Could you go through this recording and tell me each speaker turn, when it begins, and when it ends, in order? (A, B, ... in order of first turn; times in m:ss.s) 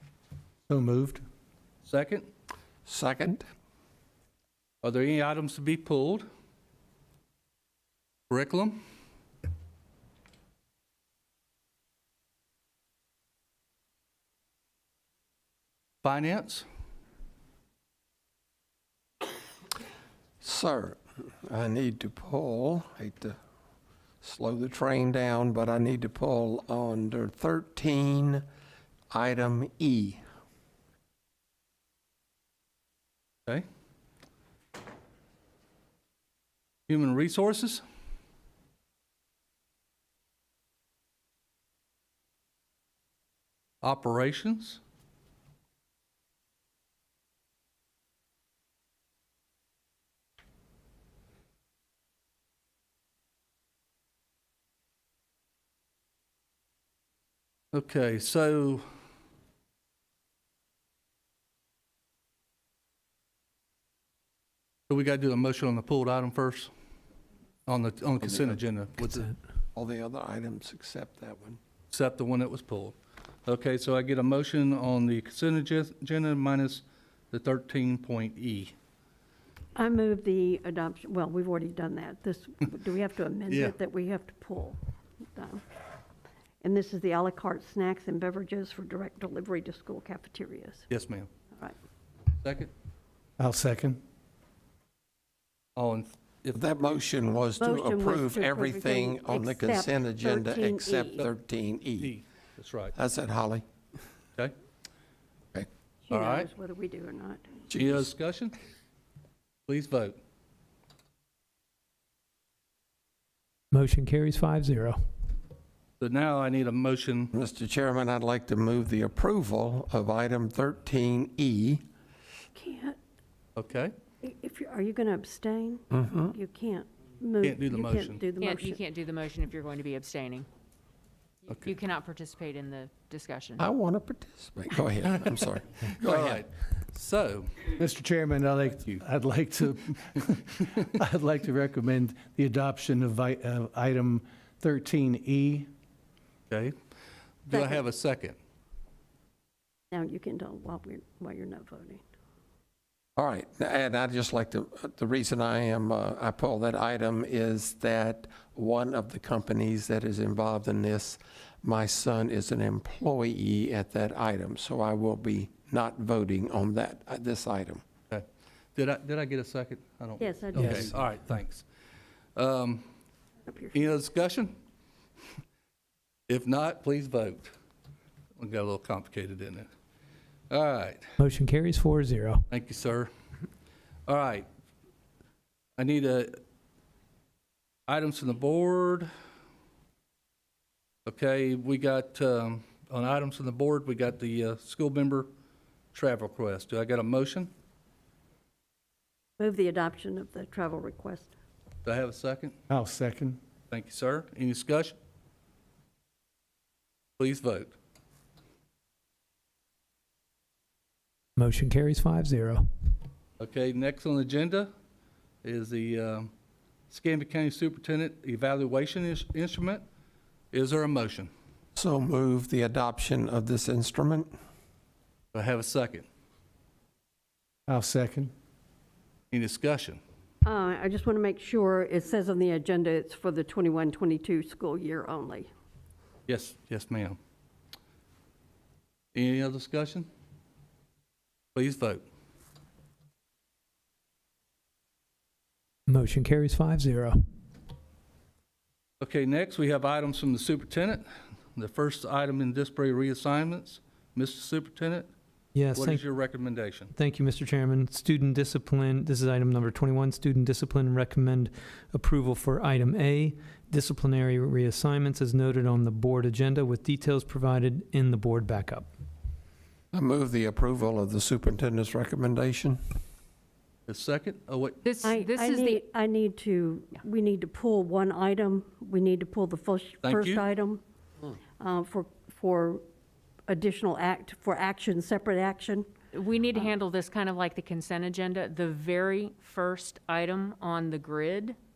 0:00.7-0:01.2 A
0:01.8-0:02.3 B
0:02.8-0:03.4 C
0:04.8-0:06.2 B
0:08.3-0:08.8 B
0:16.0-0:16.6 B
0:20.4-0:23.4 C
0:24.2-0:28.4 C
0:29.1-0:30.2 C
0:36.9-0:37.8 B
0:43.8-0:44.8 B
0:57.7-0:58.8 B
1:04.9-1:06.7 B
1:07.6-1:09.3 B
1:08.2-1:08.6 C
1:09.7-1:11.6 C
1:11.9-1:12.9 B
1:13.4-1:18.7 B
1:19.8-1:24.8 D
1:23.5-1:23.7 B
1:25.4-1:25.6 D
1:26.6-1:30.9 D
1:30.9-1:31.3 B
1:32.4-1:32.7 B
1:33.4-1:34.0 A
1:35.8-1:37.0 B
1:36.5-1:42.1 C
1:37.6-1:41.2 D
1:42.0-1:42.9 B
1:42.9-1:43.6 C
1:46.0-1:47.6 D
1:46.1-1:46.5 B
1:47.7-1:48.6 B
1:49.7-1:50.2 B
1:53.7-1:55.0 E
1:56.0-1:57.3 B
1:57.3-2:01.8 C
2:02.5-2:03.0 D
2:03.6-2:03.9 B
2:04.2-2:08.8 D
2:05.9-2:06.3 C
2:07.4-2:08.2 B
2:08.4-2:10.5 F
2:11.5-2:11.7 B
2:11.6-2:13.7 F
2:13.6-2:16.4 C
2:16.0-2:17.7 B
2:17.8-2:25.7 A
2:26.5-2:26.8 B
2:27.4-2:28.4 B
2:27.5-2:27.8 D
2:29.9-2:32.0 D
2:33.2-2:47.8 C
2:48.1-2:51.6 B
2:50.2-2:50.9 D
2:52.4-2:52.8 B
2:53.5-2:53.8 D
2:53.7-2:54.5 B
2:56.3-2:57.5 B
2:58.4-2:59.7 B
3:00.5-3:01.1 B
3:01.2-3:02.4 E
3:02.5-3:03.1 B
3:04.1-3:04.5 B
3:05.8-3:06.4 B
3:07.9-3:09.1 B
3:11.0-3:15.3 B
3:15.9-3:17.5 B
3:19.4-3:21.3 D
3:21.8-3:22.6 B
3:22.7-3:23.4 A
3:23.7-3:25.0 B
3:27.2-3:27.7 B
3:31.4-3:32.6 E
3:33.4-3:34.7 B
3:35.4-3:36.3 B
3:36.9-3:39.8 B
3:40.5-3:41.3 B
3:41.8-3:44.3 C
3:45.3-3:46.0 B
3:47.7-3:48.3 A
3:49.3-3:50.0 B
3:50.4-3:55.5 D
3:56.3-3:57.2 B
3:59.1-4:00.1 B
4:01.5-4:02.0 B
4:05.9-4:07.2 E
4:09.0-4:15.1 B
4:15.5-4:16.0 E
4:15.7-4:16.9 B
4:16.9-4:28.9 E
4:29.9-4:32.8 C
4:33.9-4:34.8 B
4:34.8-4:35.8 F
4:35.0-4:40.8 D
4:40.0-4:40.4 B
4:41.6-4:42.8 D
4:43.5-4:45.8 D
4:46.1-4:51.6 F